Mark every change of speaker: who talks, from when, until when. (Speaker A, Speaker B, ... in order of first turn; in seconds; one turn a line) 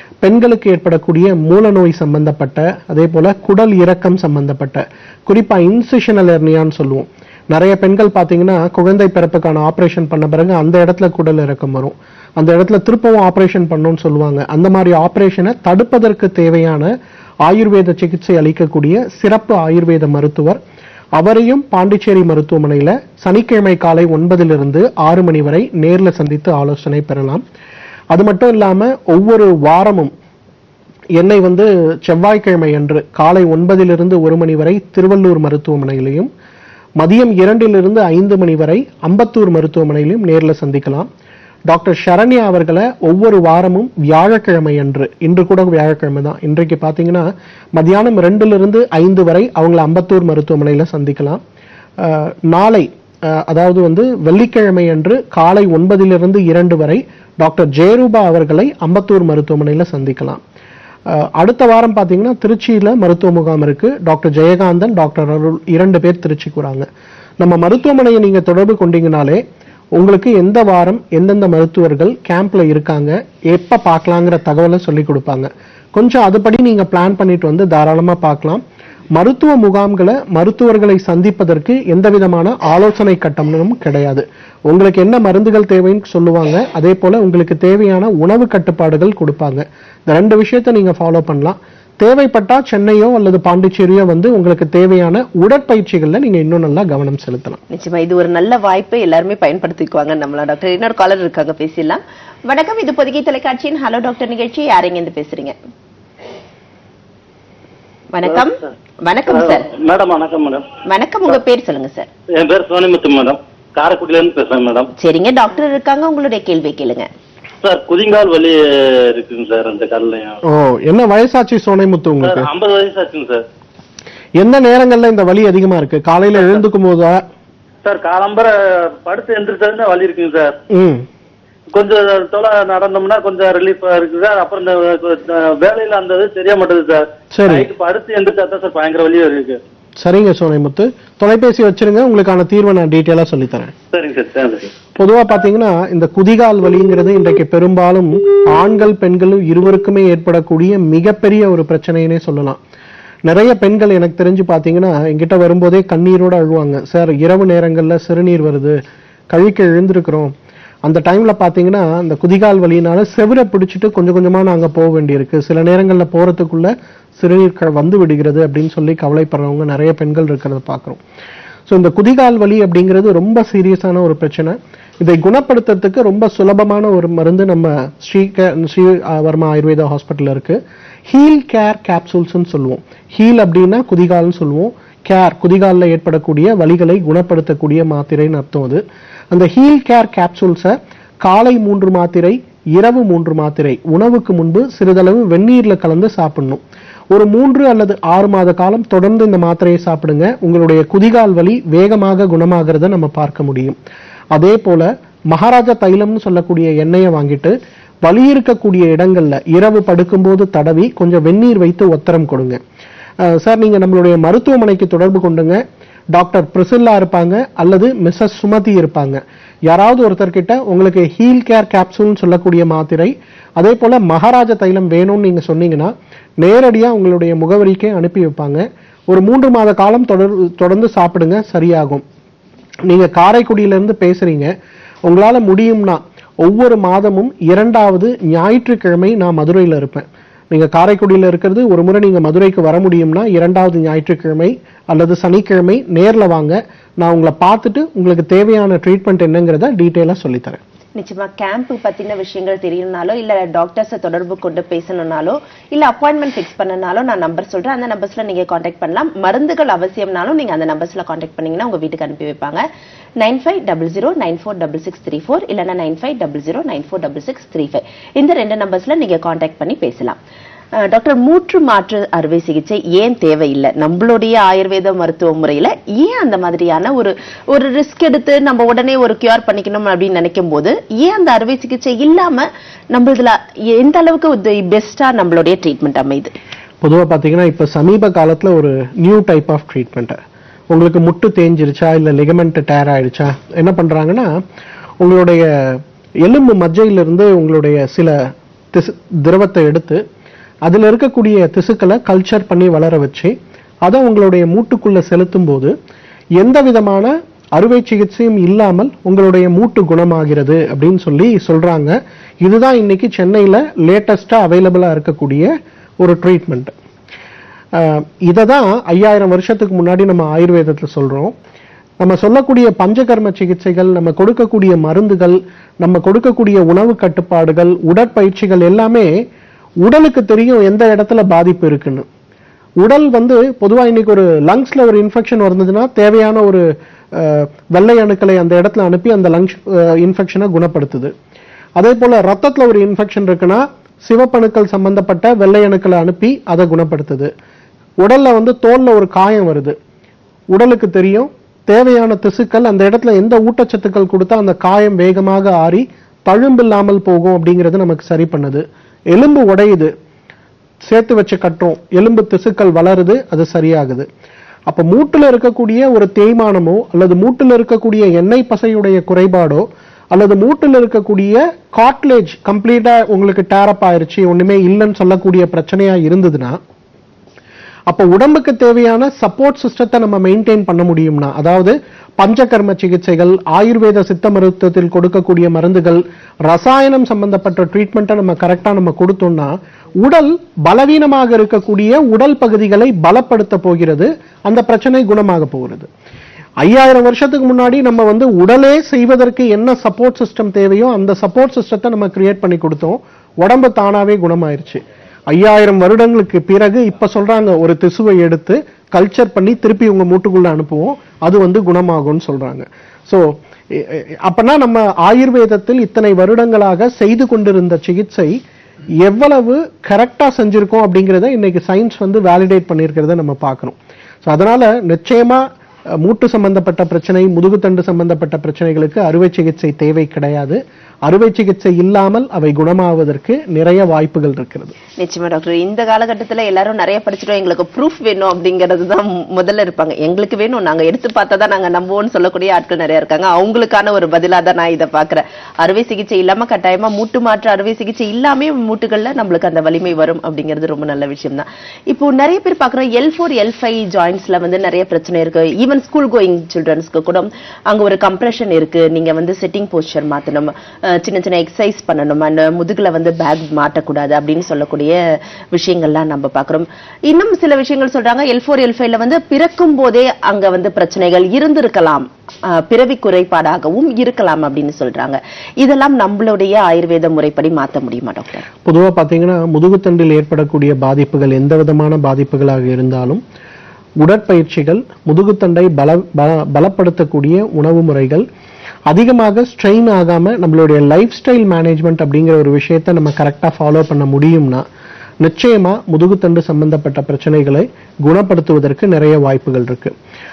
Speaker A: 0.2-16.9
Speaker A: 17.4-20.6
Speaker A: 21.2-27.4
Speaker A: 28.1-30.1
Speaker A: 31.2-36.3
Speaker A: 37.0-41.1
Speaker A: 41.7-51.4
Speaker A: 52.0-60.4
Speaker A: 61.1-66.8
Speaker A: 67.4-69.4
Speaker A: 70.0-78.6
Speaker A: 79.1-97.6
Speaker B: 97.7-105.5
Speaker B: 108.1-109.7
Speaker C: 109.3-110.6
Speaker B: 110.8-112.1
Speaker C: 112.3-114.9
Speaker B: 115.0-117.1
Speaker C: 117.6-120.4
Speaker A: 120.4-122.5
Speaker C: 122.2-123.4
Speaker A: 124.4-127.2
Speaker C: 127.8-130.6
Speaker A: 130.7-131.1
Speaker C: 131.7-139.6
Speaker A: 137.3-137.7
Speaker A: 140.0-143.7
Speaker C: 143.9-144.7
Speaker A: 145.0-152.6
Speaker A: 153.3-158.8
Speaker A: 159.3-160.3
Speaker A: 160.8-171.0
Speaker A: 171.7-203.8
Speaker A: 204.3-212.6
Speaker A: 213.2-215.6
Speaker A: 216.1-232.0
Speaker A: 232.9-234.5
Speaker A: 235.0-250.6
Speaker B: 251.0-262.6
Speaker B: 263.2-270.2
Speaker B: 270.8-286.3
Speaker A: 286.8-290.2
Speaker A: 290.7-294.3
Speaker A: 295.0-298.2
Speaker A: 298.7-300.0
Speaker A: 300.6-303.3
Speaker A: 303.8-305.7
Speaker A: 306.4-315.5
Speaker A: 316.0-316.7
Speaker A: 317.7-321.3
Speaker A: 322.0-329.1
Speaker A: 329.8-332.1
Speaker A: 332.8-341.1
Speaker A: 341.8-347.3
Speaker A: 348.0-349.8
Speaker A: 350.5-359.9
Speaker A: 360.8-364.1
Speaker A: 364.7-376.6
Speaker A: 377.9-395.9
Speaker A: 396.6-418.3
Speaker A: 419.0-425.4
Speaker A: 426.0-434.7
Speaker B: 435.0-464.9
Speaker B: 465.5-478.4
Speaker A: 478.6-483.2
Speaker A: 484.0-488.2
Speaker A: 488.9-494.6
Speaker A: 495.2-499.9